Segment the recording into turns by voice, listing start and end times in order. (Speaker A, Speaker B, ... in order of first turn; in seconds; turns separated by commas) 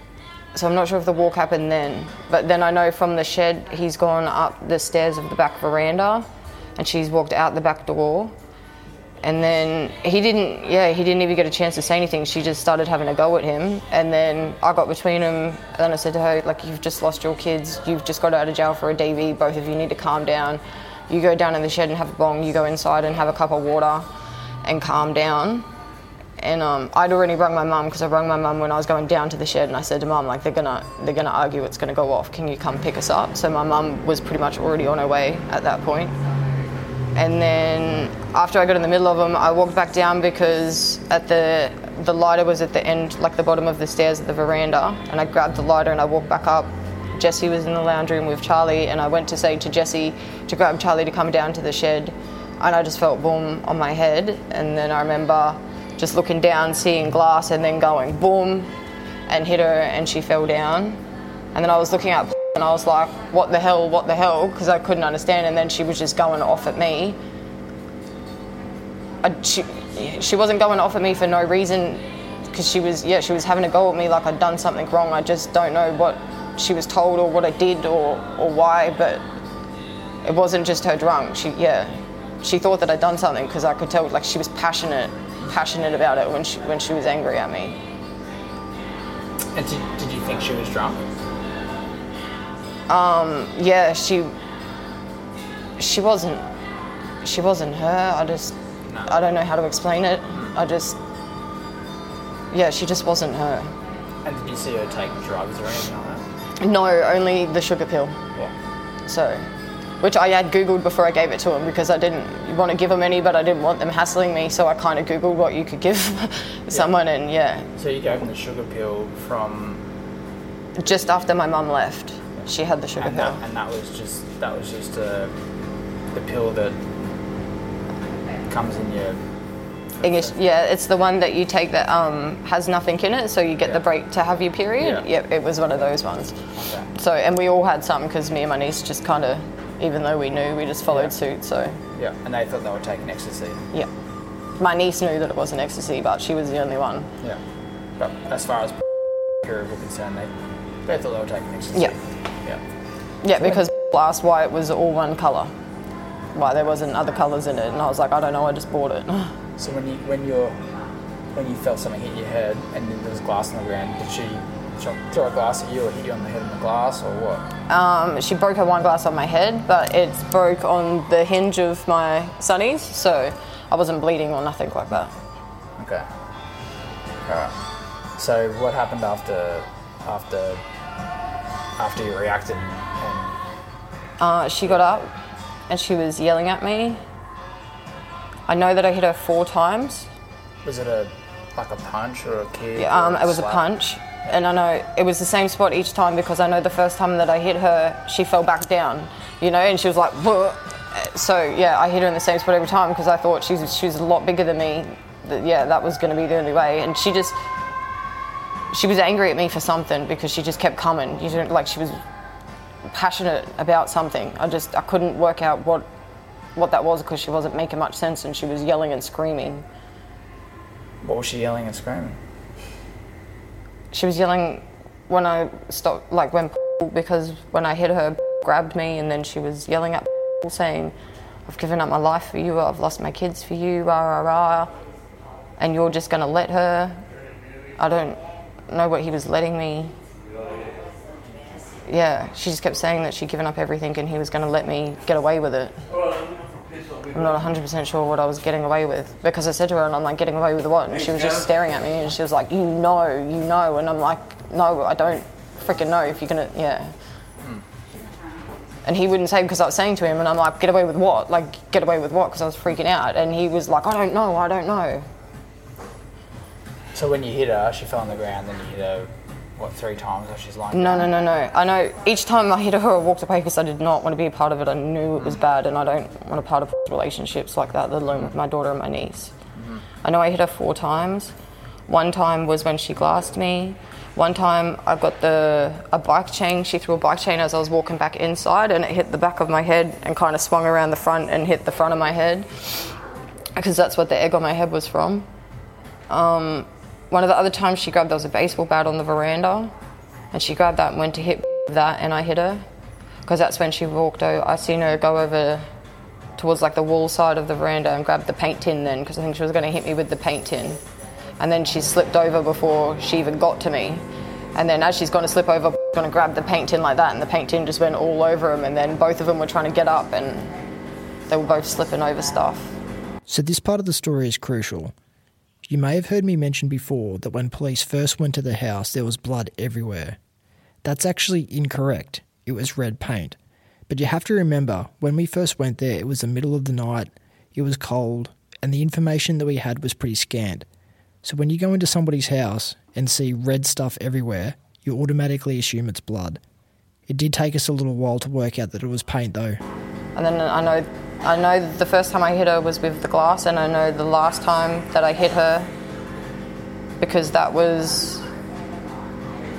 Speaker A: 0.5-6.3, Speaker A: 6.8-8.3, Speaker A: 9.2-24.1, Speaker A: 24.6-25.7, Speaker A: 26.4-36.1, Speaker A: 37.1-58.7, Speaker A: 59.3-61.0, Speaker A: 61.5-67.2, Speaker A: 69.2-79.2, Speaker A: 80.2-87.8, Speaker B: 89.5-91.0, Speaker A: 92.9-94.3, Speaker A: 95.8-96.5, Speaker A: 97.2-101.0, Speaker B: 98.9-99.1, Speaker A: 102.5-103.7, Speaker B: 104.2-106.2, Speaker A: 106.6-108.2, Speaker A: 109.1-109.5, Speaker A: 110.0-117.7, Speaker B: 117.8-119.8, Speaker A: 120.8-123.4, Speaker B: 122.4-125.3, Speaker B: 126.1-126.8, Speaker B: 128.5-129.2, Speaker B: 130.0-130.4, Speaker A: 130.0-136.4, Speaker B: 134.8-135.1, Speaker B: 136.6-136.9, Speaker A: 136.9-141.8, Speaker B: 142.0-143.6, Speaker A: 144.6-147.1, Speaker B: 148.0-148.8, Speaker B: 149.4-150.3, Speaker B: 150.9-152.6, Speaker A: 153.2-155.5, Speaker A: 156.3-159.3, Speaker B: 159.6-160.6, Speaker B: 161.3-167.5, Speaker A: 167.7-175.1, Speaker B: 175.8-176.1, Speaker B: 177.3-177.6, Speaker B: 178.2-180.6, Speaker B: 181.8-183.3, Speaker A: 184.2-185.1, Speaker A: 185.7-187.0, Speaker A: 188.5-190.1, Speaker B: 190.6-193.6, Speaker A: 192.8-207.4, Speaker A: 208.7-212.0, Speaker A: 212.9-215.9, Speaker A: 216.6-219.7, Speaker B: 221.0-222.2, Speaker A: 223.9-230.9, Speaker A: 231.5-234.7, Speaker A: 235.6-237.0, Speaker A: 237.8-239.9, Speaker A: 241.9-245.8, Speaker A: 247.1-256.9, Speaker A: 258.9-265.1, Speaker B: 266.9-271.1, Speaker A: 270.7-279.3, Speaker B: 279.6-279.9, Speaker A: 280.0-281.3, Speaker A: 281.9-292.9, Speaker A: 293.6-295.3, Speaker A: 296.1-299.7, Speaker A: 300.3-302.7, Speaker A: 303.2-305.7, Speaker A: 306.4-310.8, Speaker A: 311.4-314.0, Speaker A: 314.6-320.5, Speaker A: 321.3-322.7, Speaker C: 323.3-324.9, Speaker C: 325.6-330.2, Speaker C: 330.8-333.4, Speaker C: 333.9-340.7, Speaker C: 341.2-346.4, Speaker C: 347.1-349.6, Speaker A: 350.1-355.7, Speaker A: 357.0-358.2